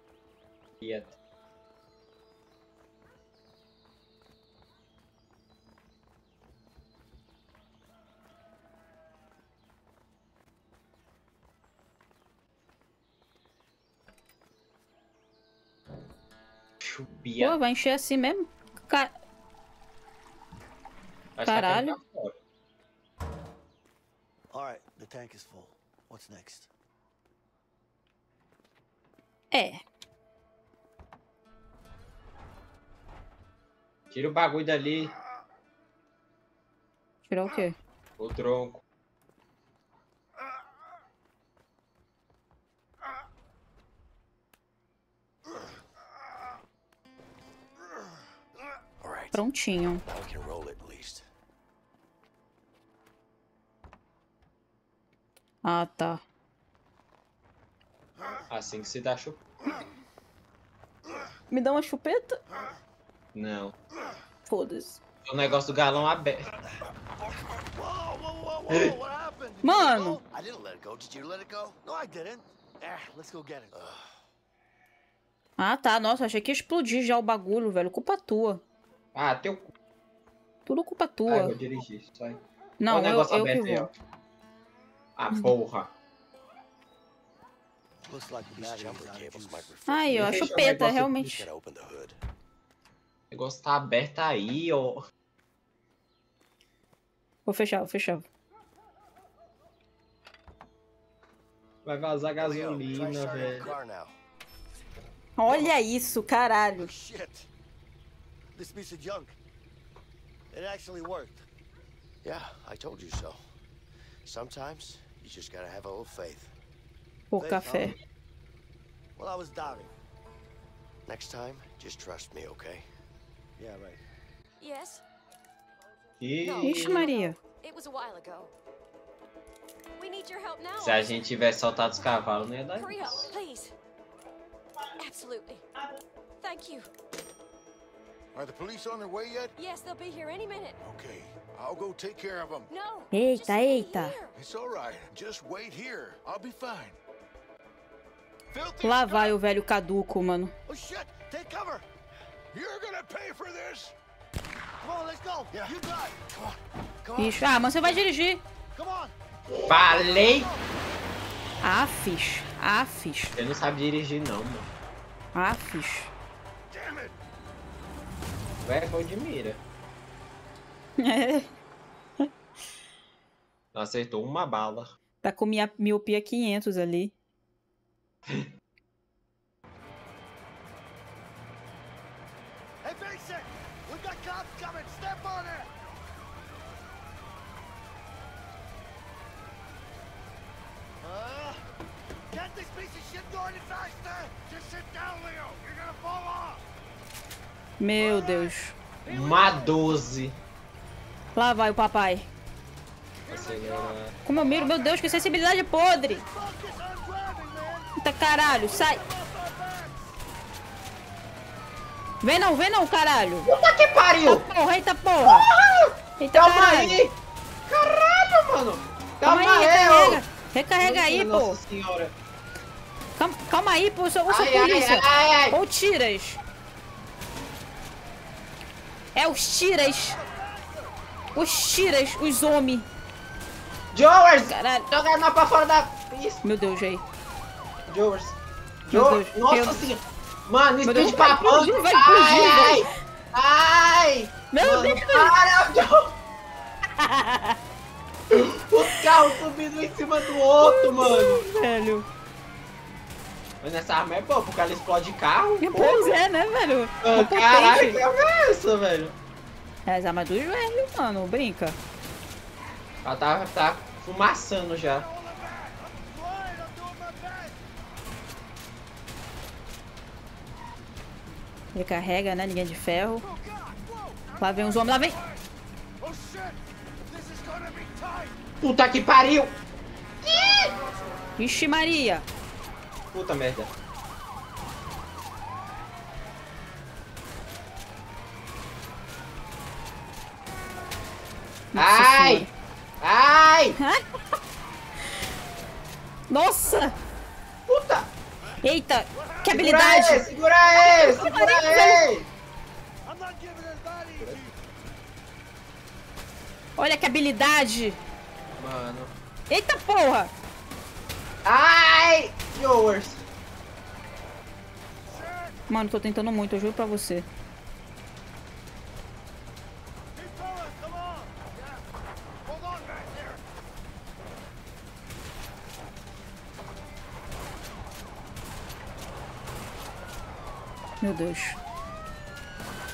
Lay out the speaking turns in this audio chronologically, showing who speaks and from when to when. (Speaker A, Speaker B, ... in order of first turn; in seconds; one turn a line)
Speaker A: 0.8-1.1
Speaker A: 16.8-17.6
Speaker B: 17.4-19.1
Speaker A: 21.4-22.4
Speaker B: 21.5-21.9
Speaker C: 24.5-26.7
Speaker B: 29.5-29.8
Speaker A: 34.1-35.1
Speaker B: 37.3-37.8
Speaker A: 38.2-38.8
Speaker D: 49.0-49.4
Speaker B: 49.3-50.0
Speaker D: 50.0-51.3
Speaker B: 55.6-56.2
Speaker A: 58.5-59.4
Speaker B: 61.5-62.4
Speaker A: 63.4-63.7
Speaker B: 64.5-65.0
Speaker A: 65.2-66.5
Speaker C: 67.3-70.2
Speaker B: 69.6-70.2
Speaker D: 70.3-71.8
Speaker C: 71.8-73.7
Speaker D: 73.7-74.1
Speaker B: 75.6-78.6
Speaker A: 79.2-79.7
Speaker B: 80.7-81.6
Speaker A: 81.3-83.9
Speaker B: 82.8-83.9
Speaker A: 85.2-85.9
Speaker C: 88.0-89.7
Speaker D: 88.5-92.2
Speaker B: 89.9-91.5
Speaker A: 90.1-91.0
Speaker A: 93.3-95.0
Speaker B: 97.5-98.3
Speaker A: 101.8-103.7
Speaker D: 102.4-104.2
Speaker C: 103.0-103.5
Speaker B: 105.4-106.9
Speaker C: 106.8-107.5
Speaker C: 108.5-109.4
Speaker C: 110.5-111.5
Speaker D: 112.2-113.4
Speaker D: 114.2-116.5
Speaker B: 117.3-118.0
Speaker C: 117.4-118.0
Speaker C: 119.2-119.9
Speaker D: 121.1-122.9
Speaker C: 123.6-124.0
Speaker E: 124.6-125.0
Speaker A: 126.2-127.1
Speaker E: 126.4-128.5
Speaker B: 126.6-127.4
Speaker E: 130.0-131.2
Speaker A: 130.8-133.3
Speaker E: 132.7-133.7
Speaker E: 135.0-135.7
Speaker E: 136.4-136.9
Speaker F: 138.3-139.5
Speaker E: 139.6-140.8
Speaker F: 140.8-142.7
Speaker E: 142.7-144.4
Speaker B: 143.1-144.2
Speaker F: 144.3-147.0
Speaker F: 148.5-149.3
Speaker B: 148.8-150.5
Speaker C: 150.7-151.9
Speaker F: 152.5-153.9
Speaker C: 154.8-156.2
Speaker D: 156.3-158.0
Speaker B: 157.2-158.4
Speaker C: 158.7-160.6
Speaker A: 159.7-160.5
Speaker B: 161.6-163.4
Speaker A: 163.4-164.7
Speaker B: 165.3-166.1
Speaker F: 166.8-167.1
Speaker A: 168.6-169.6
Speaker B: 171.0-171.5
Speaker A: 173.7-174.9
Speaker B: 175.2-177.1
Speaker C: 182.8-185.7
Speaker C: 191.0-191.6
Speaker C: 192.3-196.6
Speaker B: 197.8-198.8
Speaker C: 198.0-198.5
Speaker C: 199.1-199.8
Speaker A: 199.1-200.4
Speaker B: 201.3-202.3
Speaker A: 203.3-204.1
Speaker C: 203.3-204.9
Speaker B: 204.2-206.2
Speaker C: 206.1-210.2
Speaker B: 208.0-209.0
Speaker B: 212.2-213.5
Speaker A: 213.5-214.5
Speaker B: 214.2-215.5
Speaker A: 215.2-217.2
Speaker B: 216.2-217.0
Speaker A: 217.7-220.2
Speaker B: 219.2-221.6
Speaker A: 220.8-222.1
Speaker B: 223.2-226.4
Speaker A: 224.3-225.6
Speaker B: 229.2-230.2
Speaker C: 230.0-230.9
Speaker B: 231.3-232.9
Speaker A: 233.9-236.4
Speaker B: 234.5-234.9
Speaker B: 236.4-237.0
Speaker A: 237.9-238.4
Speaker B: 238.9-239.8
Speaker A: 238.9-246.2
Speaker B: 240.8-242.9
Speaker B: 244.5-245.3
Speaker B: 247.0-247.6
Speaker A: 248.3-251.4
Speaker B: 248.9-249.2
Speaker B: 250.3-252.1
Speaker A: 253.6-256.2
Speaker B: 255.6-258.0
Speaker A: 257.0-259.2
Speaker B: 259.9-261.8
Speaker A: 263.0-265.1
Speaker C: 264.9-267.6
Speaker B: 271.7-273.2
Speaker F: 273.2-275.4
Speaker B: 274.4-275.2
Speaker C: 276.0-276.5
Speaker F: 276.0-276.5
Speaker F: 277.1-278.3
Speaker A: 278.6-279.5
Speaker F: 280.3-281.2
Speaker A: 280.4-280.7
Speaker B: 281.4-282.3
Speaker A: 283.1-283.7
Speaker B: 291.7-292.5
Speaker A: 291.8-292.5
Speaker A: 293.0-293.8
Speaker B: 293.8-294.0
Speaker B: 296.3-296.9
Speaker A: 297.7-298.1
Speaker B: 298.6-300.2
Speaker C: 299.2-299.7
Speaker A: 299.5-302.3
Speaker B: 300.8-302.1
Speaker C: 300.9-301.2
Speaker C: 303.1-304.6
Speaker B: 306.8-308.0
Speaker A: 308.6-309.1
Speaker B: 309.5-310.3
Speaker A: 311.4-313.2
Speaker C: 315.1-315.5
Speaker B: 315.7-317.3
Speaker C: 320.2-321.8
Speaker C: 322.5-323.4
Speaker B: 331.0-331.6